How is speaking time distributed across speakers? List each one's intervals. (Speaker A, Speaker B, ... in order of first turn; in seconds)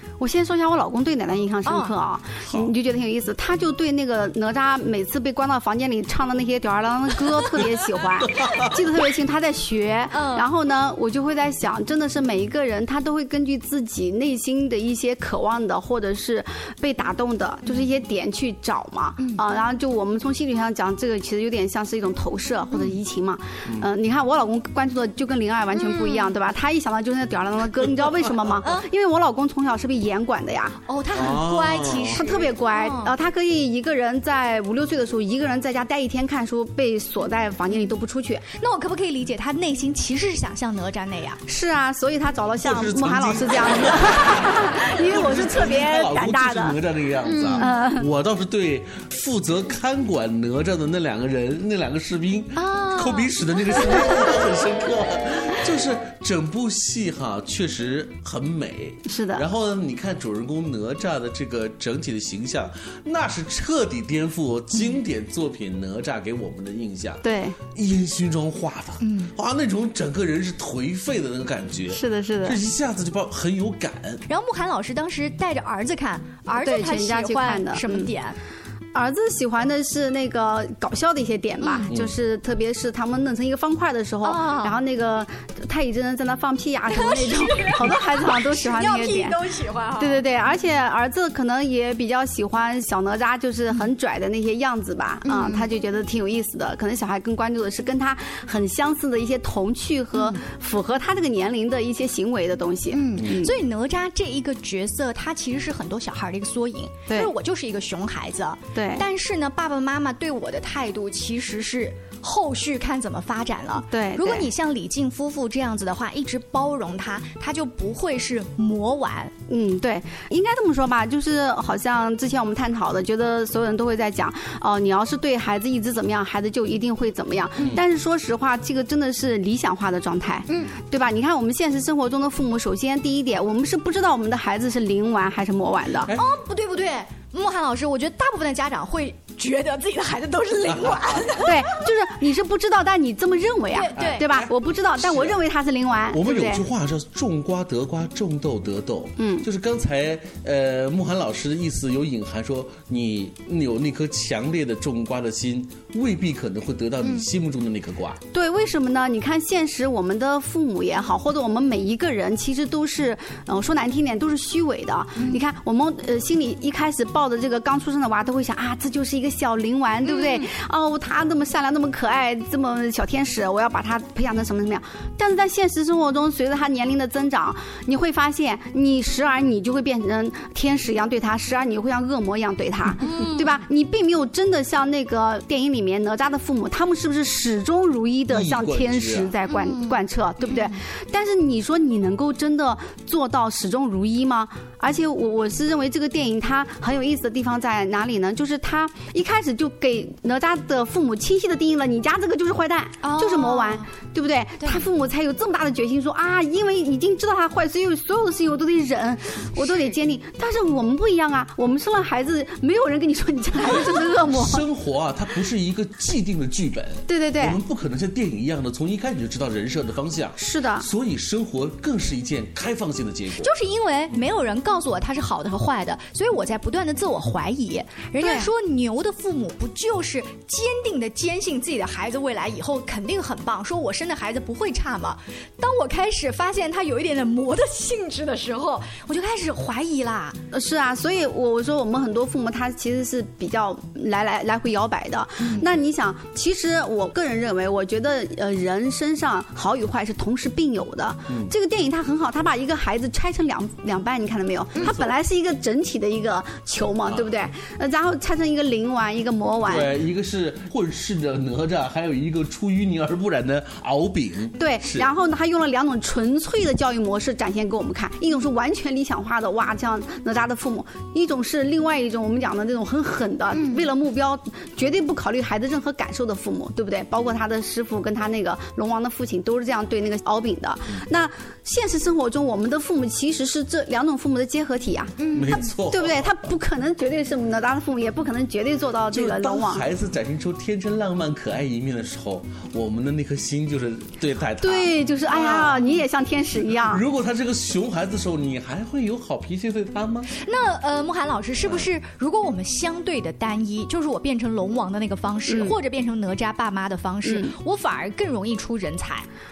Speaker A: 0.2-30.8, 32.1-38.4, 41.5-46.8, 47.5-48.1, 59.1-59.4, 67.2-67.6, 71.9-72.6, 76.6-78.1, 78.9-89.4, 90.0-103.5, 108.8-109.0, 113.9-114.5, 119.5-136.1, 141.4-146.6, 149.2-149.5, 158.3-214.6, 217.1-217.6, 220.4-220.9, 228.2-228.5, 240.5-259.9, 264.6-289.8, 294.6-297.0, 305.5-305.8, 307.2-307.5
Speaker B: 1.6-1.9, 10.1-10.5, 19.2-19.4, 22.7-23.0, 25.7-26.3, 30.9-33.1, 38.5-41.4, 47.4-47.7, 52.5-54.2, 69.0-69.3, 74.3-78.4, 81.6-81.9, 84.2-84.8, 86.9-90.2, 95.2-95.7, 100.1-100.4, 102.9-119.3, 136.1-141.6, 143.7-144.2, 170.0-170.4, 183.0-183.6, 189.5-190.8, 203.0-203.9, 204.6-204.9, 209.6-209.9, 223.4-240.4, 300.3-309.3
Speaker C: 2.5-2.7, 31.1-32.2, 42.6-74.2, 127.6-127.8, 136.0-136.3, 140.6-141.3, 144.0-145.4, 146.1-158.2, 188.3-189.3, 213.6-223.5, 254.8-255.1, 257.1-257.3, 259.6-265.1, 285.3-286.4, 289.1-296.0, 296.7-300.3